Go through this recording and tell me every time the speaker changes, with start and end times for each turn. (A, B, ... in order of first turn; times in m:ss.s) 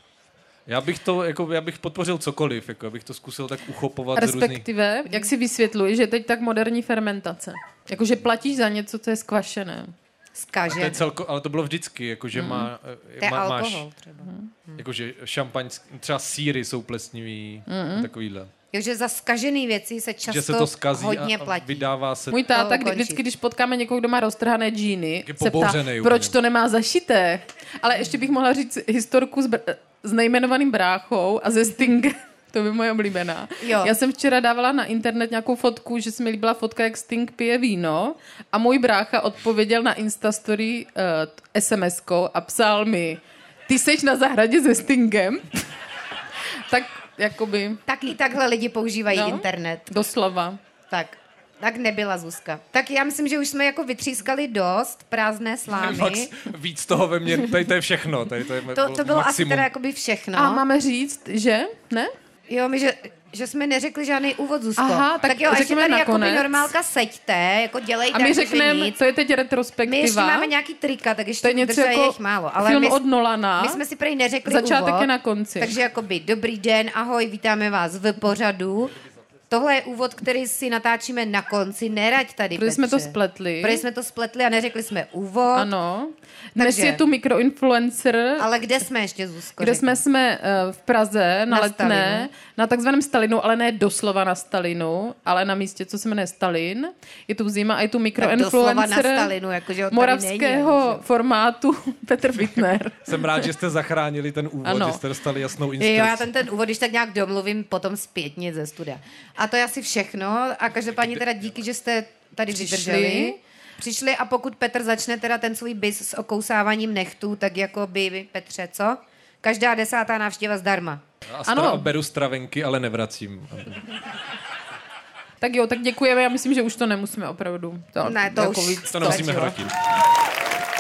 0:00.7-0:04.7 A
0:04.2-0:09.9 B
0:10.3-0:11.0 C
0:10.7-0:13.9 A
0:12.4-0:12.7 B
0:13.2-0:14.8 C
0:14.2-0:14.5 B
0:14.8-0:18.5 A
0:17.7-0:18.1 B
0:18.7-0:21.8 C
0:20.3-0:22.5 A
0:22.3-0:45.5 B
0:22.5-0:23.2 C
0:25.3-0:26.4 A
0:33.6-0:34.0 C
0:46.7-0:47.8 B
0:47.9-0:49.9 C
0:49.1-0:50.6 B
0:50.9-0:56.3 C
0:55.7-0:59.7 A
0:58.7-1:00.6 C
1:00.3-1:02.1 B
1:02.5-1:09.0 C
1:04.8-1:06.7 B
1:08.1-1:10.5 B
1:09.9-1:13.0 C
1:11.4-1:13.8 B
1:13.6-1:18.9 C
1:14.5-1:15.7 B
1:19.5-1:25.7 C
1:22.5-1:23.8 B
1:25.5-1:28.5 B
1:26.6-1:27.0 C
1:28.4-1:30.0 C
1:29.6-1:39.3 B
1:31.5-1:32.3 C
1:38.2-1:41.0 C
1:39.9-1:43.5 B
1:43.1-1:46.3 A
1:44.6-1:45.0 B
1:45.8-2:01.0 C
1:52.5-1:53.4 B
2:01.3-2:03.8 A
2:01.5-2:01.9 B
2:05.4-2:09.3 B
2:08.0-2:09.6 C
2:08.9-2:09.7 A